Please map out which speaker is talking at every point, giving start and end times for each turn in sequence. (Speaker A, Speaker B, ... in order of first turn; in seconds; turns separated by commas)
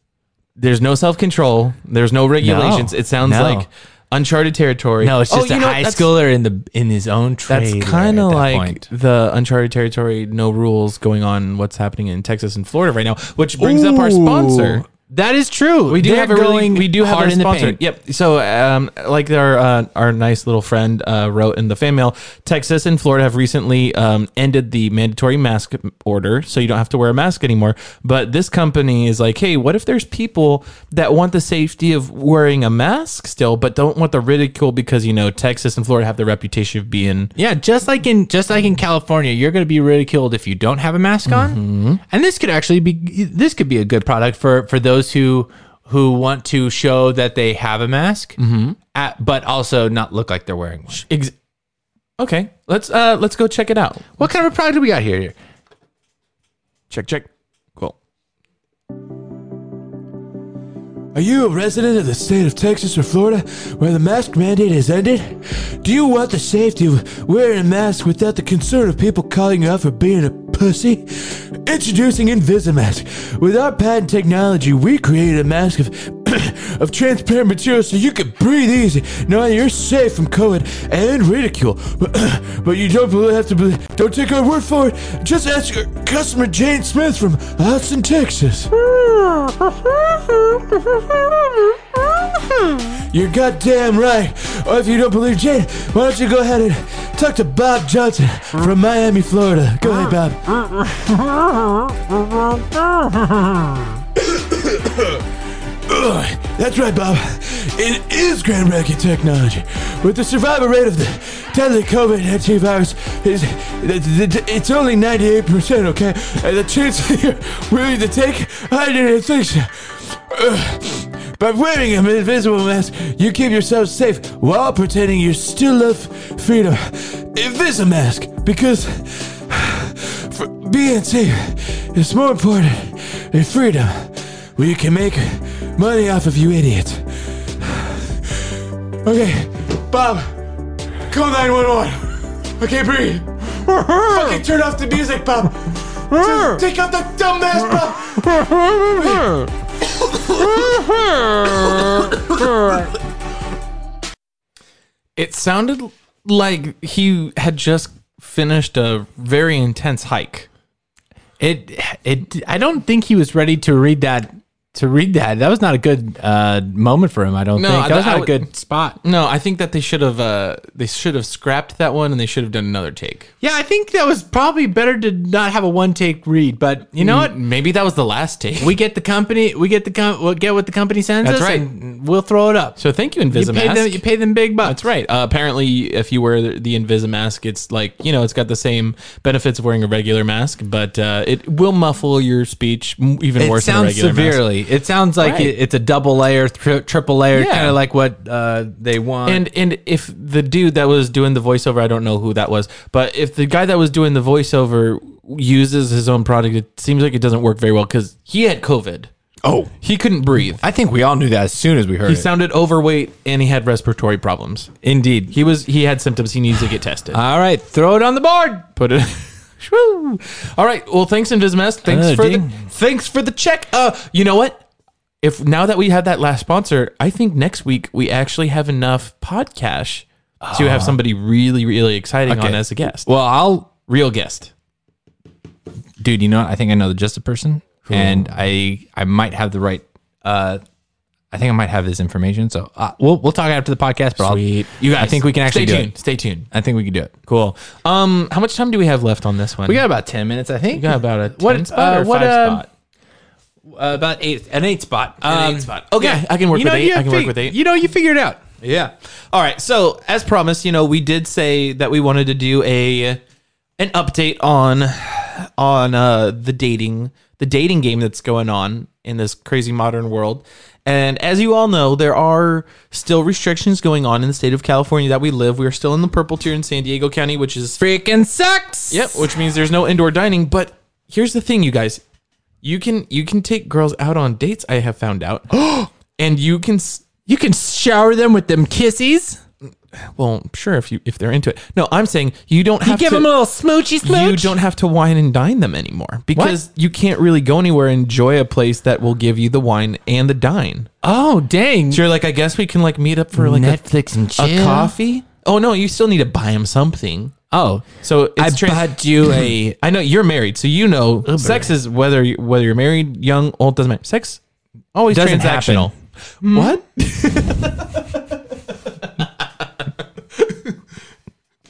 Speaker A: 0.6-6.1, Speaker B: 2.4-3.7, Speaker B: 5.0-8.8, Speaker A: 7.5-14.8, Speaker B: 13.6-17.8, Speaker A: 15.9-37.3, Speaker B: 37.4-48.4, Speaker A: 41.3-42.0, Speaker A: 48.4-48.8, Speaker B: 48.9-51.0, Speaker A: 50.9-51.3, Speaker A: 52.2-54.2, Speaker B: 54.2-55.3, Speaker A: 56.9-58.0, Speaker A: 61.1-88.8, Speaker B: 88.9-89.8, Speaker A: 93.0-100.6, Speaker B: 101.3-101.8, Speaker B: 102.9-103.5, Speaker A: 104.2-105.2, Speaker A: 105.8-138.5, Speaker A: 139.0-140.4, Speaker A: 141.1-149.5, Speaker B: 143.7-144.4, Speaker B: 146.2-146.6, Speaker B: 148.2-149.4, Speaker A: 150.1-152.8, Speaker B: 150.4-152.9, Speaker A: 155.2-160.5, Speaker B: 161.4-169.0, Speaker A: 167.6-168.4, Speaker A: 169.0-173.3, Speaker B: 173.4-177.3, Speaker A: 177.0-178.7, Speaker B: 178.6-182.8, Speaker A: 181.2-181.7, Speaker A: 182.8-184.0, Speaker B: 183.3-184.8, Speaker A: 184.6-194.4, Speaker B: 193.4-199.4, Speaker A: 195.2-195.5, Speaker A: 197.3-197.8, Speaker A: 199.2-209.1, Speaker B: 209.4-209.7, Speaker A: 209.8-210.6, Speaker B: 210.6-212.3, Speaker A: 212.1-214.7, Speaker B: 214.8-215.3, Speaker A: 215.3-217.2, Speaker B: 217.1-218.7, Speaker A: 218.8-224.6, Speaker B: 221.8-222.6, Speaker A: 225.2-233.1, Speaker B: 230.4-230.9, Speaker B: 232.3-233.7, Speaker A: 233.8-234.5, Speaker B: 236.0-240.6, Speaker A: 237.8-238.3, Speaker B: 241.3-245.9, Speaker A: 244.2-246.5, Speaker B: 246.5-247.1, Speaker A: 247.3-249.8, Speaker B: 249.7-252.6, Speaker A: 250.7-252.7, Speaker B: 253.7-258.4, Speaker A: 255.2-257.6, Speaker A: 258.6-263.2, Speaker A: 263.8-277.8, Speaker B: 277.8-279.2, Speaker A: 278.9-282.0, Speaker A: 282.6-285.5, Speaker B: 285.5-285.9, Speaker A: 286.2-287.1, Speaker B: 287.2-289.4, Speaker A: 289.9-293.3, Speaker B: 292.8-294.6, Speaker A: 294.0-300.9, Speaker B: 301.0-302.0, Speaker A: 301.9-307.3, Speaker B: 303.3-304.9, Speaker B: 307.5-309.7, Speaker A: 308.0-314.4, Speaker B: 311.2-311.7, Speaker A: 314.9-318.2, Speaker B: 315.1-315.9, Speaker B: 316.4-316.8, Speaker A: 319.0-319.3, Speaker A: 320.3-320.7